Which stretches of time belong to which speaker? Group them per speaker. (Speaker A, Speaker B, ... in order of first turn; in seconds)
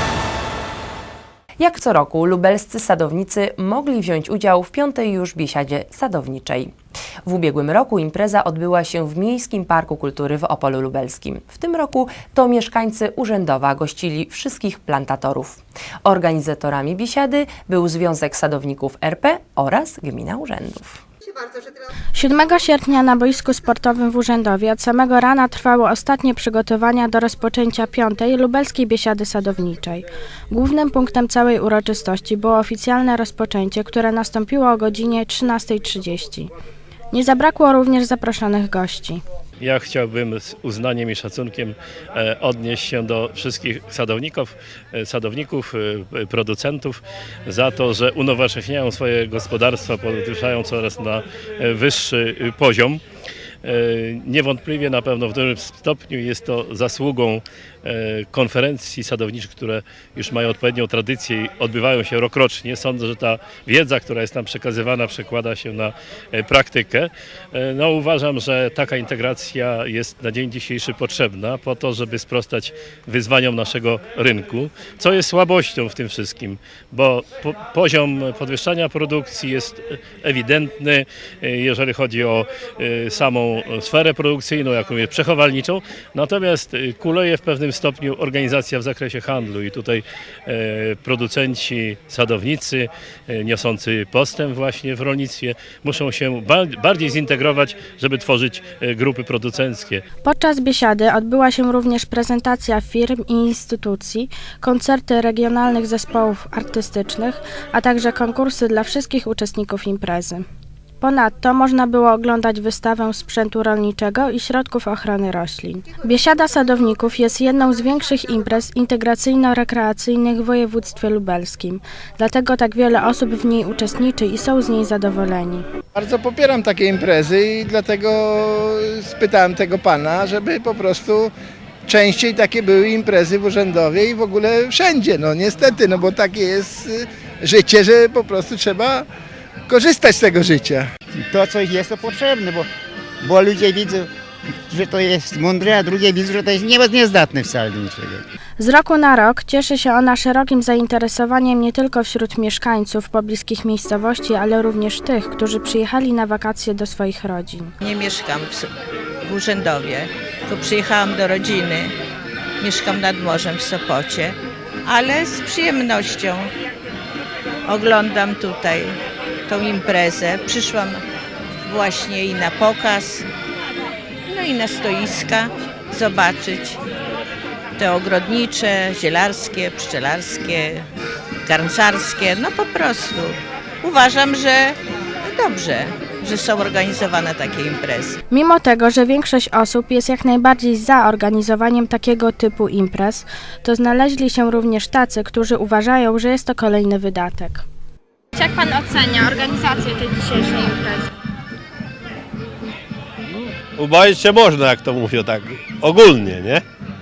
Speaker A: 1.6-6.7, 7.2-21.0
Speaker B: 22.1-36.5, 37.1-39.2, 100.2-110.4, 111.0-125.6, 148.6-157.7, 188.3-197.6, 198.3-201.1
Speaker C: 39.6-53.0, 53.6-100.0
Speaker D: 125.9-131.3, 131.9-139.1, 139.7-140.9
Speaker E: 141.3-142.7, 143.2-144.1, 144.7-148.2
Speaker F: 157.8-158.7, 159.2-161.9, 162.6-166.5, 167.7-171.0, 171.6-173.3, 174.3-176.8, 177.8-180.9, 181.4-188.2
Speaker G: 203.8-206.6